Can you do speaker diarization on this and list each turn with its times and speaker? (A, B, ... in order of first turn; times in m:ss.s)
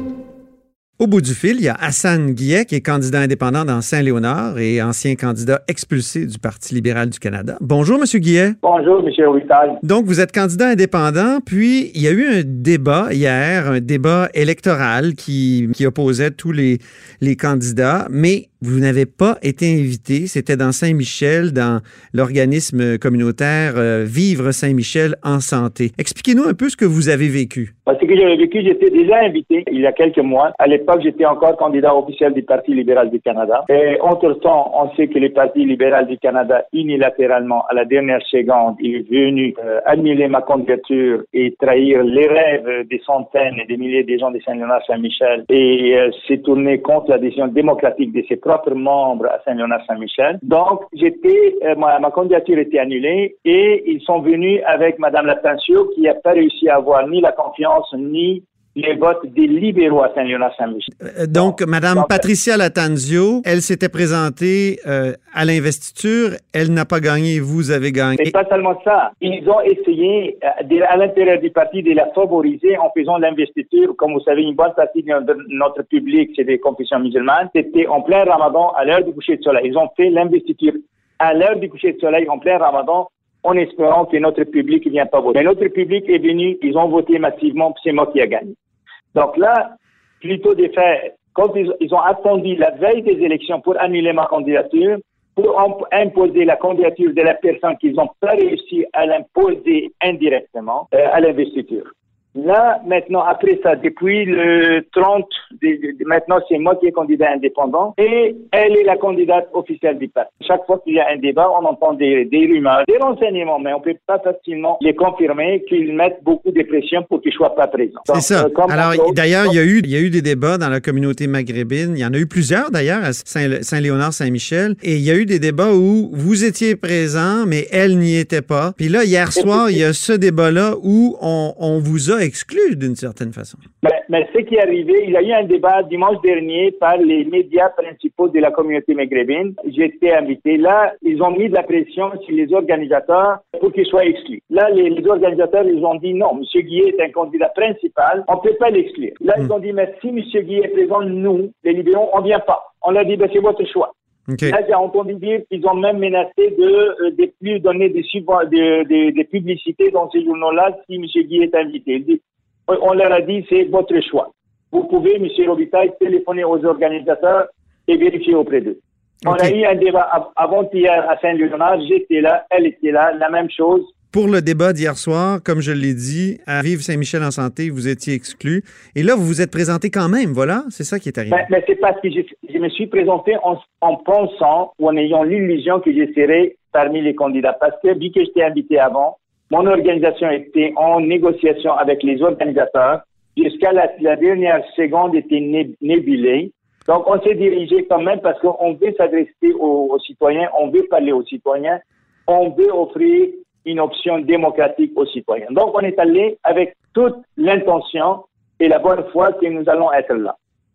0:01.0-0:08.6 A
0:08.6-0:09.8 B
0:09.8-0:27.7 A
0:27.8-1:02.2 B
1:01.0-1:08.3 A
1:08.2-1:28.5 B
1:29.1-1:59.5 B
1:58.1-2:13.6 A
2:09.4-2:09.8 B
2:13.8-2:33.9 B
2:34.3-2:34.6 A
2:34.4-2:53.9 B
2:49.2-2:49.5 A
2:54.1-3:01.5 A
3:01.3-3:30.3 B